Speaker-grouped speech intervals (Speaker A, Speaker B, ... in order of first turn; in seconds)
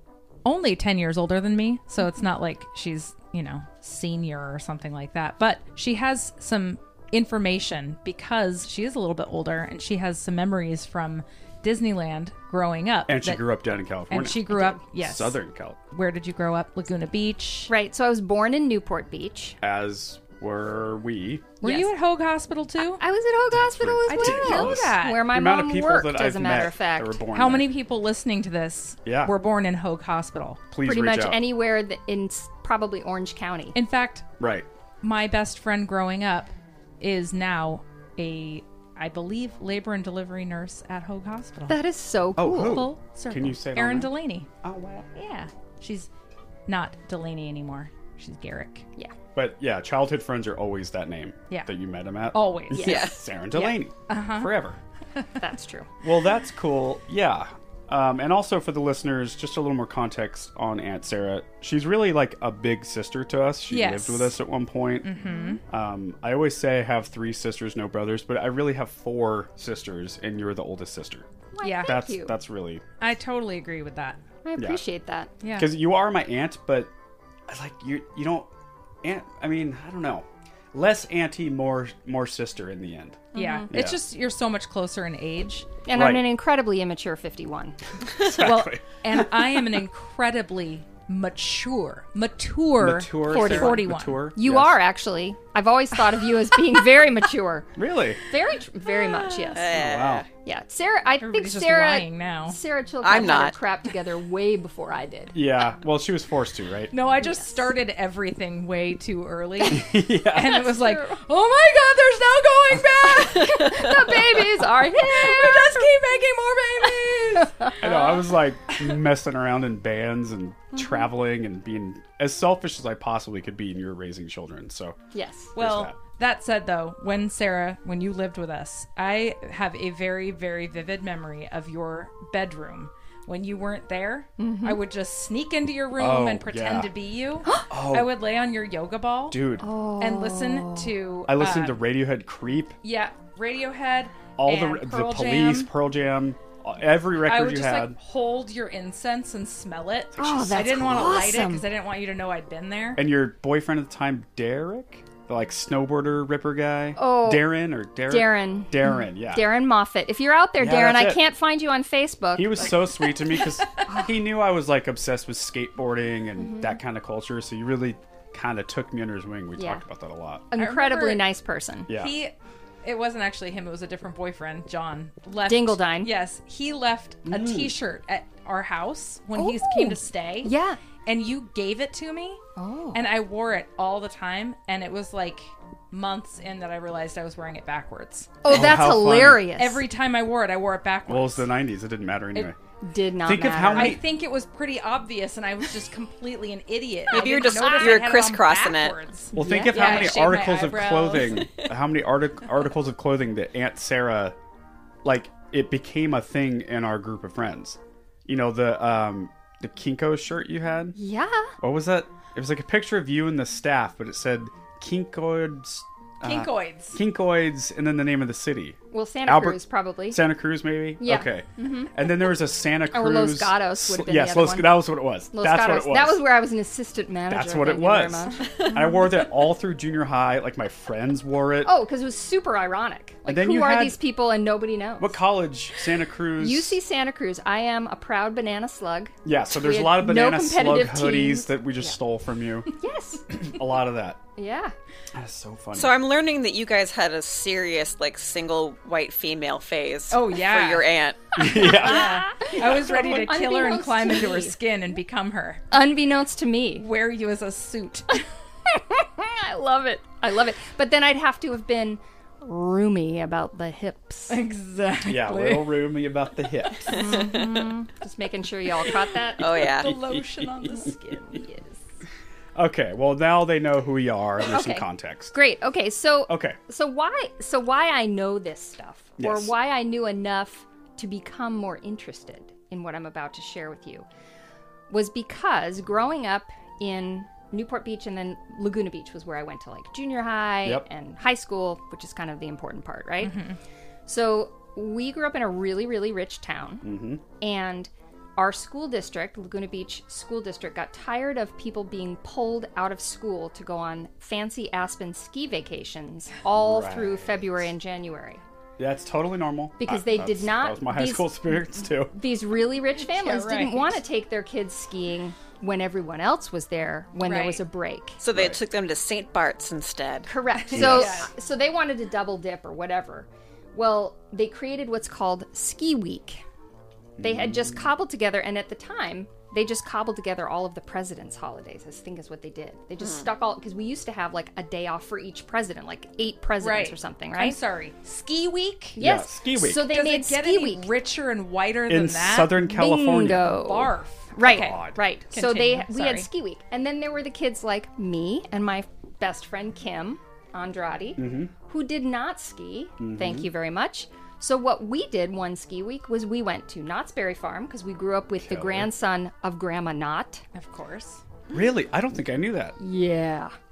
Speaker A: 0.4-15.4, 15.9-17.7, 21.6-23.0, 24.1-25.3, 27.3-30.6, 33.7-34.2, 35.0-36.5, 37.0-41.8, 42.4-44.5, 45.1-46.1, 46.7-48.9, 52.3-53.0, 54.1-54.5, 63.7-64.4, 65.0-65.6, 71.6-71.9, 73.0-74.2, 75.4-75.7, 83.3-85.7, 88.2-94.2, 98.9-99.5, 101.2-102.6, 106.9-118.8, 125.5-139.4, 140.0-141.8, 142.8-145.7, 147.2-153.0, 162.6-163.9, 170.6-171.2, 171.9-182.4, 182.9-188.6, 189.6-191.5, 193.7-201.7, 216.2-217.0, 250.1-250.9, 251.6-255.6, 256.8-258.2, 264.3-265.9, 266.8-267.7, 269.5-271.8, 293.2-293.6, 313.0-314.0, 317.2-317.6, 320.7-321.3, 336.6-339.0, 339.8-342.6, 343.3-346.3, 360.5-361.2
Speaker B: 13.1-15.8, 19.6-21.6, 23.5-27.7, 29.1-29.3, 30.7-31.4, 34.4-34.7, 42.4-44.1, 44.6-45.1, 49.3-54.8, 56.0-65.1, 65.7-71.3, 71.8-72.8, 74.5-74.8, 75.5-76.9, 77.5-78.5, 79.0-84.0, 85.9-86.2, 88.2-89.4, 92.8-94.8, 97.8-98.2, 99.7-100.2, 105.3-106.9, 109.7-110.6, 117.8-125.0, 125.5-126.0, 135.9-136.9, 137.7-138.1, 139.3-139.7, 141.3-142.8, 144.4-148.0, 150.2-151.5, 152.9-159.4, 160.6-161.2, 162.3-170.5, 171.9-172.1, 177.2-177.7, 188.5-189.4, 191.1-192.6, 193.2-194.0, 199.3-204.3, 205.0-211.0, 211.6-226.2, 227.3-231.7, 233.2-234.0, 235.0-236.8, 239.2-242.7, 243.3-244.2, 245.1-246.0, 251.4-253.2, 265.0-267.3, 269.7-270.9, 272.5-275.3, 276.3-276.6, 279.2-279.5, 296.8-297.2, 306.5-307.7, 308.8-312.1, 318.3-318.6, 320.7-321.2, 327.2-327.8, 338.9-339.9, 341.9-343.5, 344.4-345.0, 351.2-351.5, 353.0-353.5, 358.4-358.9, 361.5-362.8
Speaker C: 14.5-14.8, 17.7-19.6, 21.6-21.9, 22.8-27.2, 30.8-33.8, 41.7-42.8, 52.7-53.8, 55.4-55.9, 65.2-65.6, 71.5-72.4, 74.4-75.3, 83.3-83.7, 85.8-87.8, 93.3-97.7, 98.3-99.7, 100.4-105.4, 107.2-107.6, 110.3-111.2, 113.0-115.8, 117.4-117.8, 120.7-121.0, 125.1-125.5, 134.4-134.8, 139.6-140.9, 150.2-151.6, 156.9-157.5, 158.1-162.8, 163.8-164.1, 166.4-166.8, 169.6-169.8, 170.5-171.9, 175.4-176.1, 179.3-180.8, 182.6-183.0, 188.4-189.8, 192.8-194.0, 197.1-198.1, 199.3-200.2, 210.9-211.5, 218.9-220.2, 221.0-221.9, 222.9-228.9, 231.6-235.2, 236.4-241.9, 242.7-243.4, 244.4-244.7, 251.4-254.5, 255.7-256.8, 258.7-264.4, 266.9-269.4, 274.4-284.1, 284.9-293.4, 294.1-296.8, 297.4-308.4, 309.8-318.2, 320.2-326.4, 327.2-337.6, 339.0-340.9, 342.6-360.4, 362.8-363.5
Speaker D: 52.8-53.1, 99.5-100.3, 103.0-103.5, 197.1-198.9, 245.7-251.2, 269.4-269.9, 318.2-320.3, 333.0-333.2